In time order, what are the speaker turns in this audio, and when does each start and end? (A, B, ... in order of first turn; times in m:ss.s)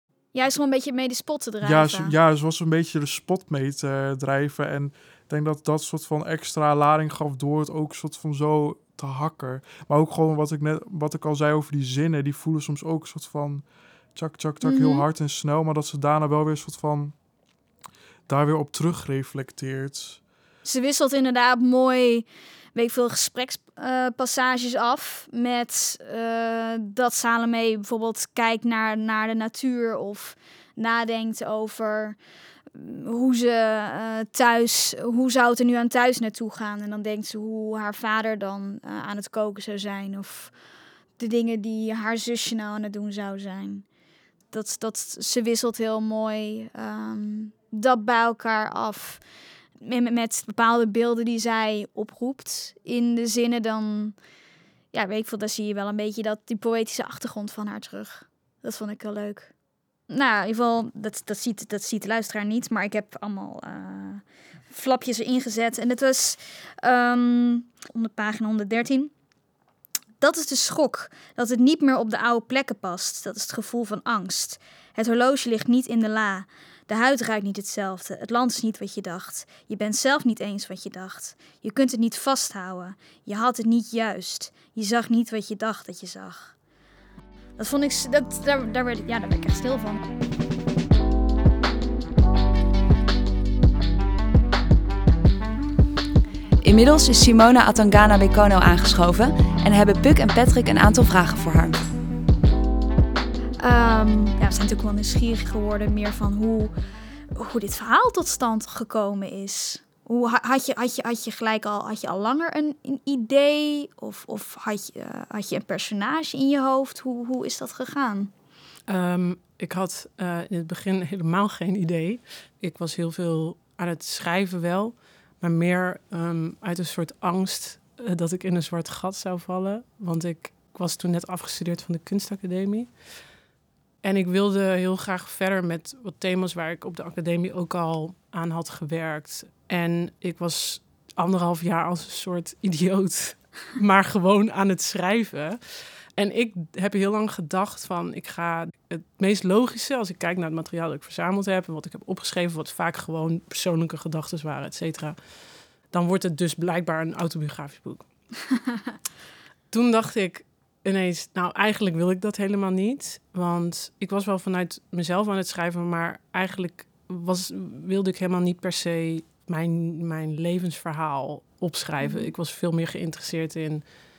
0:00.3-0:02.1 A
0:01.6-0:13.6 B
0:14.1-0:17.1 B
0:14.6-0:15.0 A
0:18.3-0:20.2 B
0:20.6-0:32.2 A
0:32.7-0:40.5 A
0:41.2-0:43.8 A
0:44.5-0:49.2 A
0:49.8-0:54.2 A
0:54.9-0:59.5 A
1:00.1-1:09.1 A
1:10.2-1:26.5 A
1:27.6-1:30.0 A
1:36.6-1:41.9 C
1:43.6-1:46.7 A
1:47.3-1:58.3 A
1:58.9-2:13.0 D
2:14.0-2:35.2 D
2:35.8-2:38.1 D
2:39.7-2:53.8 D
2:52.0-2:52.3 A